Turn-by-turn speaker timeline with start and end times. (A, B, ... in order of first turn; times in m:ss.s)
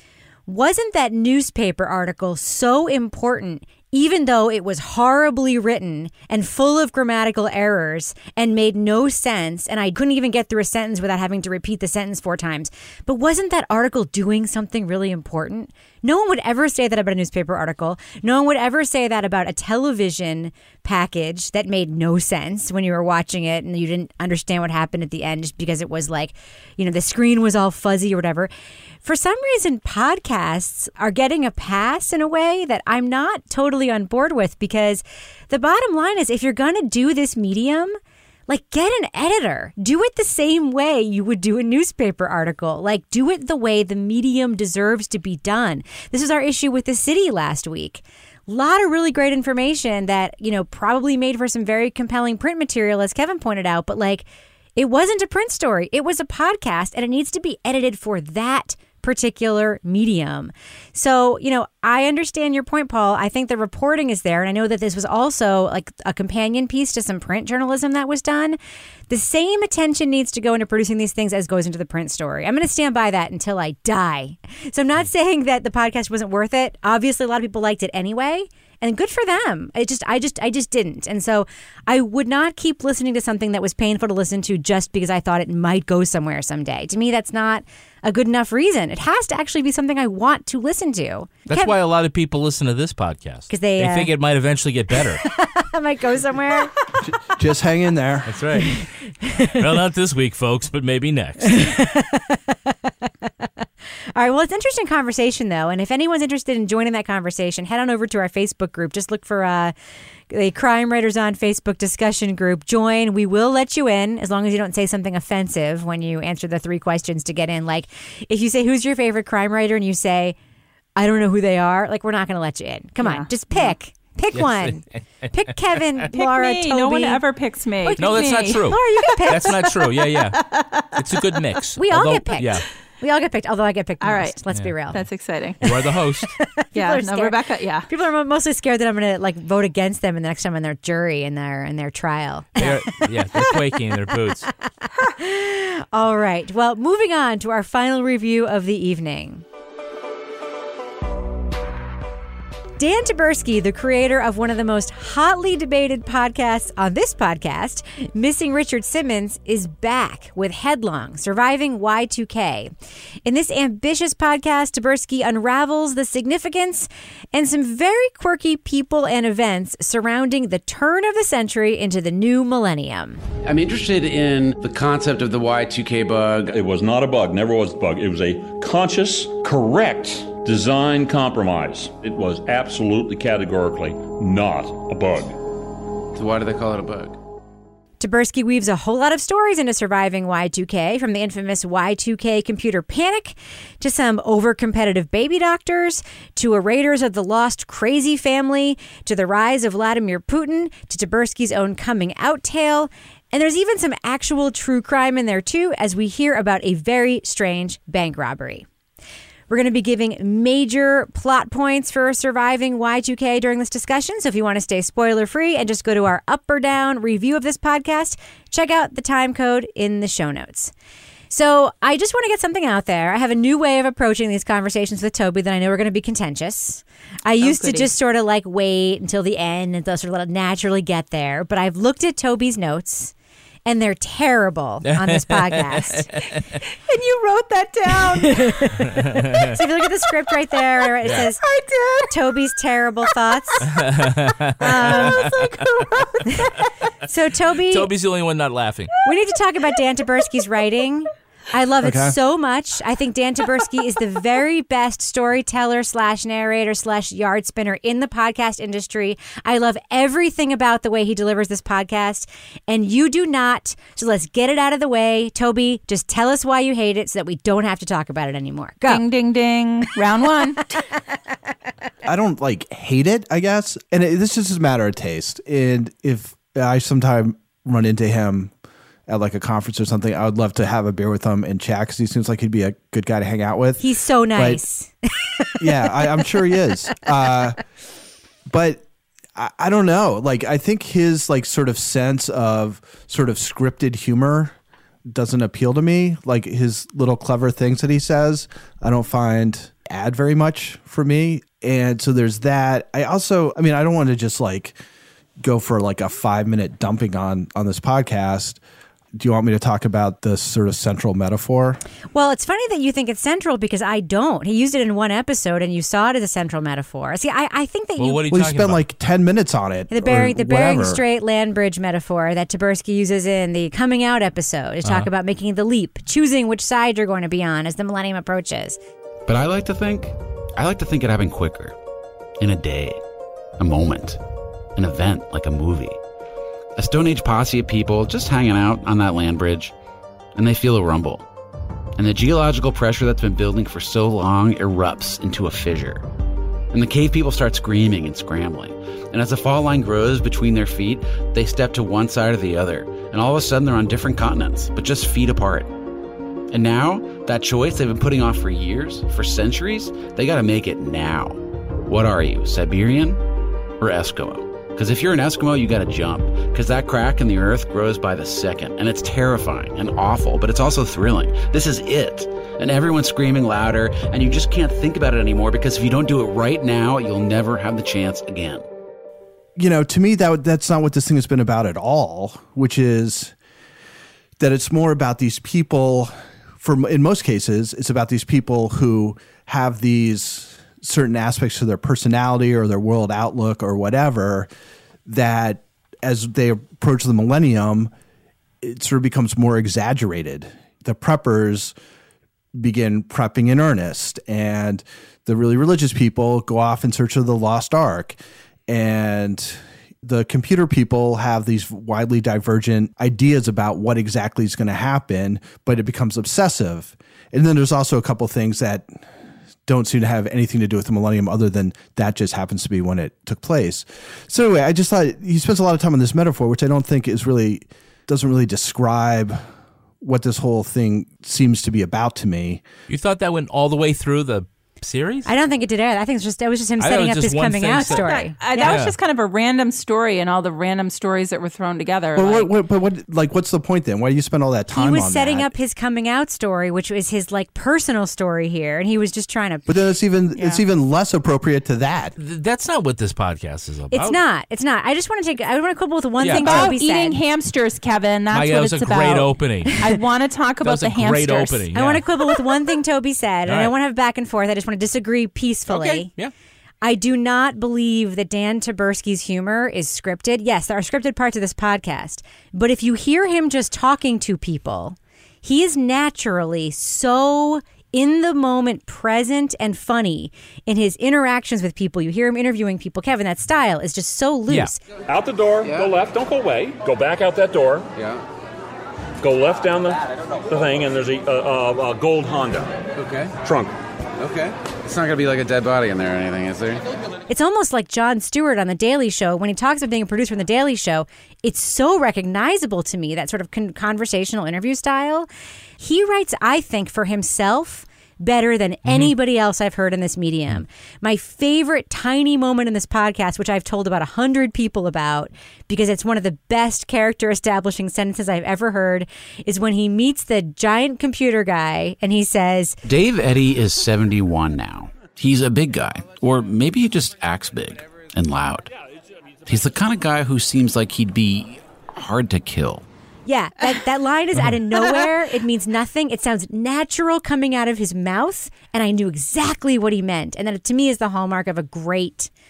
0:00.5-0:28.5 A
0:29.0-0:38.0 A
0:38.5-1:08.6 A
1:09.1-1:31.7 A
1:31.5-1:35.2 B
1:33.5-1:34.1 A
1:35.2-1:36.7 A
1:37.0-1:38.4 C
1:38.3-1:38.9 B
1:39.4-1:41.7 B
1:41.5-1:42.7 A
1:44.1-1:49.7 A
1:50.3-2:00.4 A
2:01.0-2:07.2 A
2:03.0-2:03.7 D
2:04.3-2:05.3 B
2:06.1-2:09.5 D
2:07.8-2:09.7 A
2:08.0-2:10.4 B
2:10.2-2:10.9 D
2:10.9-2:12.7 B
2:11.8-2:15.0 A
2:14.0-2:14.4 D
2:14.9-2:15.7 D
2:15.6-2:16.3 B
2:16.4-2:17.3 A
2:16.7-2:17.8 D
2:17.9-2:22.8 A
2:22.6-2:24.5 B
2:24.9-2:29.4 A
2:32.8-2:42.7 A
2:43.2-2:53.2 A
2:53.4-2:56.5 E
2:56.5-3:05.4 F
3:06.1-3:07.2 E
3:08.0-3:28.6 A
3:29.5-3:40.7 A
3:41.3-3:53.1 A
3:47.4-3:47.9 D
3:53.6-3:56.1 A
3:54.8-3:56.6 B
3:56.9-3:58.7 D
3:58.2-4:01.4 A
3:58.9-3:59.5 B
4:01.3-4:02.1 D
4:02.1-4:03.7 A
4:03.7-4:05.6 B
4:04.6-4:05.2 A
4:04.8-4:06.7 D
4:07.0-4:07.9 A
4:07.7-4:08.9 B
4:09.0-4:29.0 A
4:11.8-4:12.1 C
4:28.8-4:30.7 D
4:32.0-4:38.5 C
4:39.1-4:43.8 C
4:43.8-4:45.9 A
4:44.3-4:44.6 C
4:45.6-4:47.6 C
4:48.4-4:48.8 C
4:49.4-4:54.5 C
4:55.1-5:04.8 C
5:05.4-5:08.6 C
5:09.1-5:11.8 C
5:12.1-5:18.2 A
5:18.0-5:18.8 B
5:18.3-5:21.0 C
5:19.9-5:28.8 A
5:29.3-5:31.7 E
5:32.4-5:33.0 E
5:33.6-5:34.2 E
5:34.8-5:36.0 E
5:36.8-5:39.7 E
5:40.4-5:41.2 E
5:42.0-5:46.1 E
5:46.7-5:55.7 E
5:56.5-6:03.2 E
6:03.8-6:18.6 E
6:19.6-6:23.3 C
6:24.4-6:34.5 C
6:35.0-6:37.9 C
6:38.6-6:41.7 C
6:42.5-6:48.2 C
6:48.7-6:59.0 C
6:59.6-7:09.4 C
7:10.0-7:12.6 C
7:12.9-7:15.3 B
7:15.2-7:18.8 A
7:16.8-7:18.9 B
7:17.8-7:22.5 D
7:22.2-7:25.5 C
7:24.7-7:29.7 A
7:29.7-7:32.1 C
7:32.2-7:34.2 B
7:33.9-7:37.2 A
7:36.2-7:36.6 B
7:36.3-7:41.6 D
7:38.3-7:39.8 B
7:40.6-7:42.0 B
7:41.7-7:46.1 A
7:43.5-7:43.7 B
7:45.7-7:46.3 B
7:46.8-8:04.8 A
8:05.1-8:07.9 F
8:05.6-8:05.9 E
8:07.9-8:08.2 E
8:09.2-8:12.8 F
8:13.0-8:13.4 E
8:13.4-8:13.7 F
8:14.2-8:16.8 E
8:17.3-8:25.3 A
8:25.8-8:42.8 A
8:28.8-8:29.1 B
8:42.8-8:48.7 E
8:49.4-8:52.8 E
8:53.2-9:02.3 A